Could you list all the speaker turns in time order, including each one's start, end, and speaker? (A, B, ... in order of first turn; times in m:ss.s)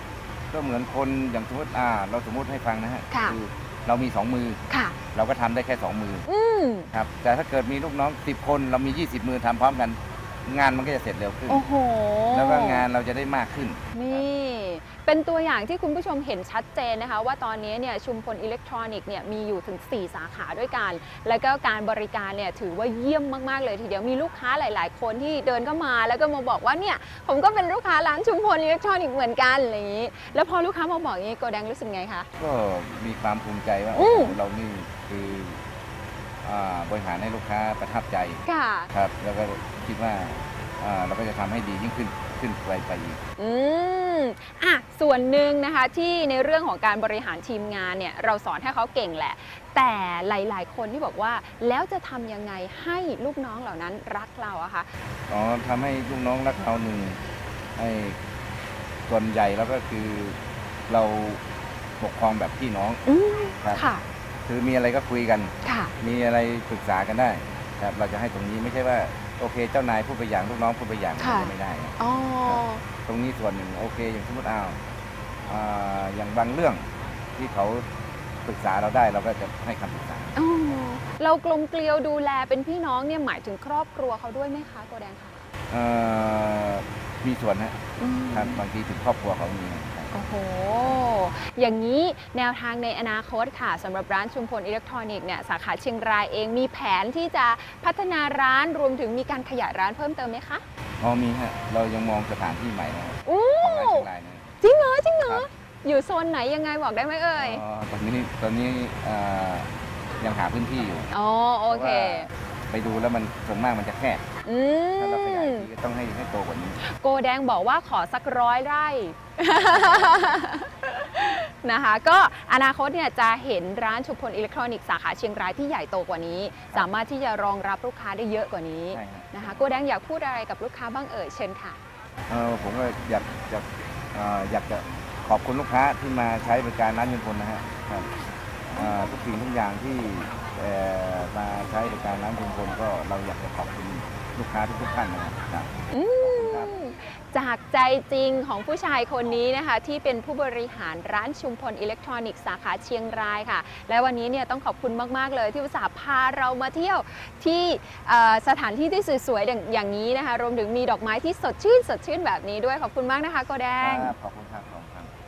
0:00.5-0:04.6 A
0:03.1-0:03.4 B
0:04.7-0:05.0 B
0:05.1-0:06.3 A
0:06.2-0:06.9 B
0:06.9-0:11.7 A
0:11.5-0:12.8 B
0:12.3-0:14.3 A
0:13.9-0:32.3 B
0:32.4-0:35.6 A
0:33.9-0:34.4 B
0:36.4-0:43.2 A
0:38.4-0:38.9 B
0:43.4-0:54.9 B
0:55.3-0:57.2 A
0:57.8-0:58.2 A
0:59.1-1:01.4 A
1:02.0-1:03.0 A
1:03.1-1:04.0 B
1:04.5-1:14.8 A
1:05.6-1:05.9 B
1:11.2-1:12.8 B
1:15.4-1:17.8 A
1:18.4-1:20.3 A
1:20.4-1:25.4 B
1:25.7-1:27.8 A
1:28.0-1:28.6 B
1:28.3-1:30.1 A
1:30.1-1:40.6 B
1:41.0-1:44.6 A
1:43.2-1:44.1 B
1:44.6-1:47.6 B
1:47.3-1:51.1 A
1:51.1-1:52.3 B
1:51.7-1:54.2 A
1:54.4-1:55.7 B
1:55.0-1:56.8 A
1:56.8-2:11.8 B
2:08.9-2:09.5 A
2:12.3-2:18.1 A
2:18.7-2:26.7 A
2:25.9-2:44.1 B
2:43.8-2:45.1 A